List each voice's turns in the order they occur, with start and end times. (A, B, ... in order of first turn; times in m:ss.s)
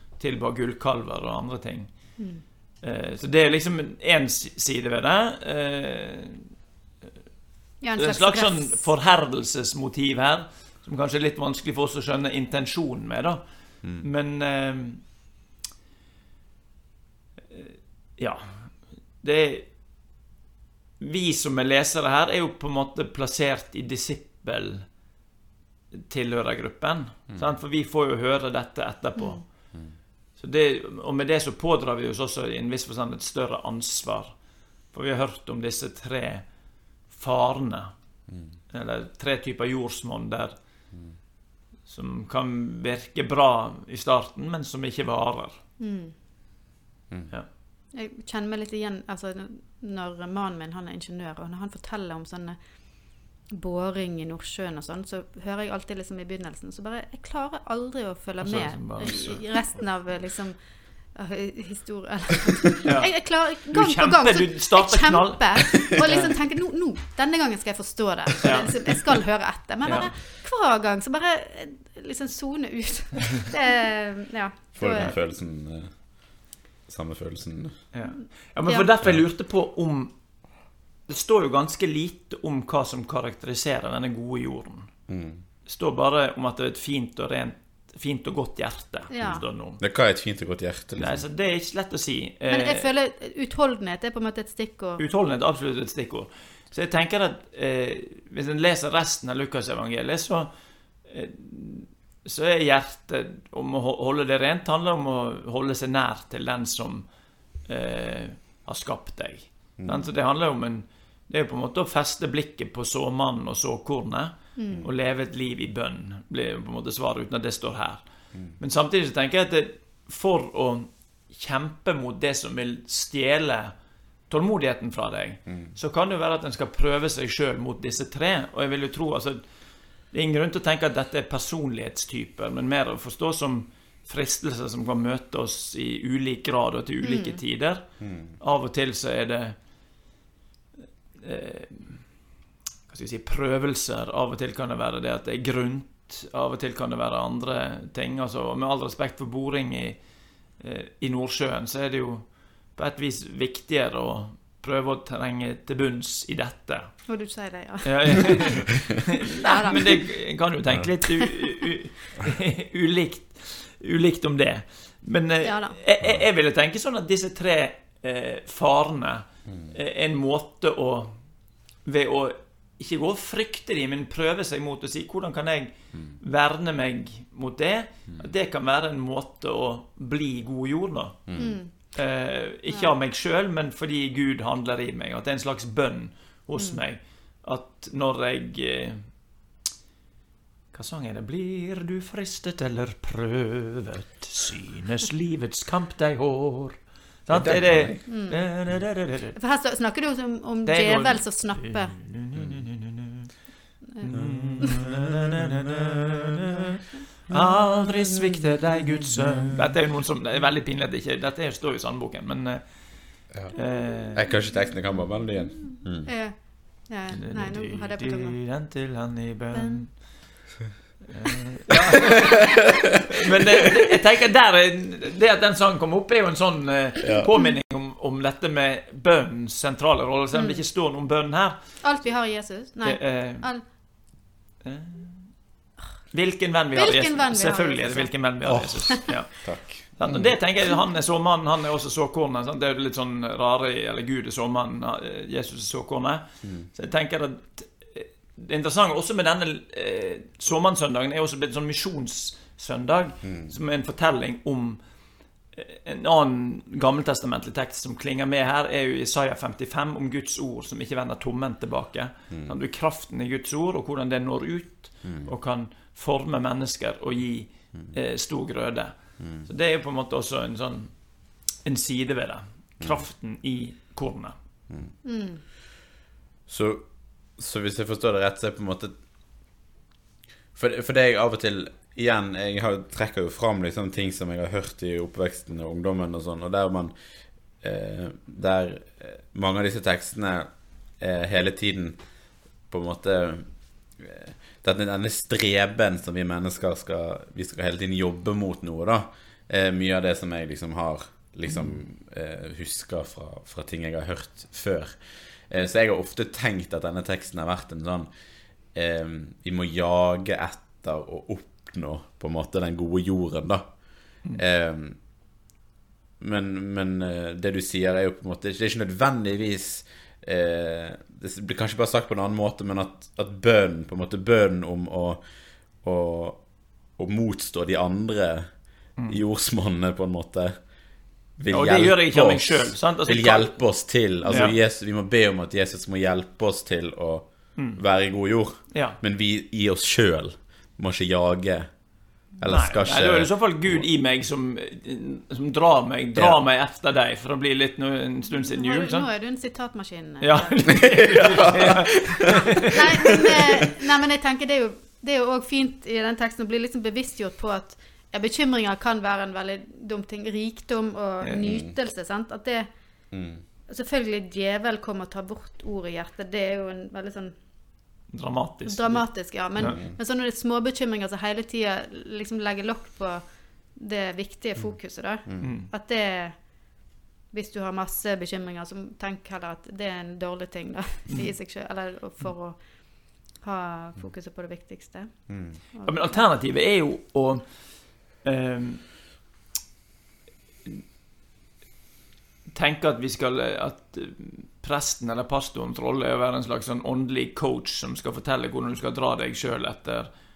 0:00.2-0:06.4 A
0:02.2-0:02.4 B
0:07.8-0:08.9 B
0:08.0-0:15.0 A
0:17.5-0:19.7 A
0:21.0-0:24.9 A
0:25.9-0:29.7 A
0:27.3-0:27.6 C
0:29.2-0:29.4 B
0:29.7-0:30.0 C
0:30.4-0:36.4 A
0:37.1-0:37.9 A
0:38.3-0:38.6 C
0:38.7-0:40.5 A
0:41.9-0:45.6 A
0:45.8-0:46.1 B
0:47.9-1:00.6 B
0:58.4-0:59.8 A
1:01.1-1:15.2 B
1:02.8-1:06.3 A
1:08.4-1:08.7 A
1:09.8-1:10.1 A
1:14.7-1:17.8 C
1:17.9-1:20.1 A
1:18.6-1:18.9 B
1:21.1-1:24.9 A
1:25.1-1:25.4 C
1:25.6-1:29.8 A
1:29.1-1:29.4 B
1:29.8-1:31.2 C
1:31.0-1:32.9 A
1:32.5-1:35.0 B
1:35.0-1:40.5 A
1:41.0-1:47.1 A
1:47.6-1:58.0 A
1:49.8-1:50.1 C
1:54.6-1:54.9 B
1:58.6-2:03.7 A
2:04.3-2:09.4 A
2:05.5-2:05.7 C
2:10.1-2:19.6 A
2:17.0-2:17.4 B
2:18.0-2:18.4 C
2:21.2-2:22.2 A
2:22.9-2:30.0 A
2:30.6-2:37.0 A
2:37.0-2:38.4 B
2:37.8-2:51.2 A
2:39.4-2:40.0 B
2:45.4-2:45.8 B
2:51.8-3:09.0 A
3:01.3-3:01.6 C
3:01.4-3:01.7 B
3:02.7-3:02.9 B
3:06.6-3:06.8 B
3:10.7-3:19.3 A
3:17.3-3:18.1 C
3:18.0-3:18.4 B
3:19.3-3:22.0 B
3:20.6-3:23.3 A
3:22.3-3:22.7 C
3:24.0-3:26.8 A
3:24.1-3:24.7 C
3:27.3-3:34.3 A
3:33.3-3:36.1 C
3:36.0-3:38.4 B
3:37.1-3:40.4 A
3:39.5-3:39.8 B
3:41.1-3:51.8 A
3:47.0-3:47.3 C
3:50.3-3:50.6 B
3:51.8-3:53.6 B
3:52.8-3:53.5 A
3:54.6-3:55.4 A
3:56.1-4:14.8 A
3:56.7-3:58.2 B
3:58.4-4:00.4 C
4:06.4-4:06.7 C
4:13.2-4:13.5 C
4:15.5-4:34.3 A
4:22.3-4:22.6 C
4:25.0-4:25.3 C
4:29.2-4:29.5 C
4:32.8-4:33.1 C
4:34.7-4:35.0 C
4:35.0-4:35.4 B
4:36.5-4:38.9 C
4:40.5-4:46.9 C
4:47.6-4:52.0 C
4:52.7-5:08.1 C
5:01.5-5:01.7 A
5:08.7-5:15.0 C
5:16.2-5:43.9 C
5:29.0-5:29.2 A
5:31.5-5:34.6 A
5:37.6-5:37.8 A
5:38.7-5:39.0 A
5:42.4-5:49.1 A
5:46.1-5:46.4 C
5:48.3-5:51.0 B
5:50.2-5:53.1 A
5:52.4-6:02.7 B
6:01.2-6:01.6 A
6:01.4-6:01.7 C
6:03.1-6:03.4 C
6:03.7-6:07.3 B
6:08.1-6:09.8 A
6:08.6-6:16.5 B
6:09.6-6:10.0 C
6:15.2-6:15.6 C
6:15.4-6:15.7 A
6:17.3-6:26.3 B
6:21.1-6:21.3 A
6:25.3-6:25.6 C
6:25.8-6:28.9 A
6:32.5-6:40.1 A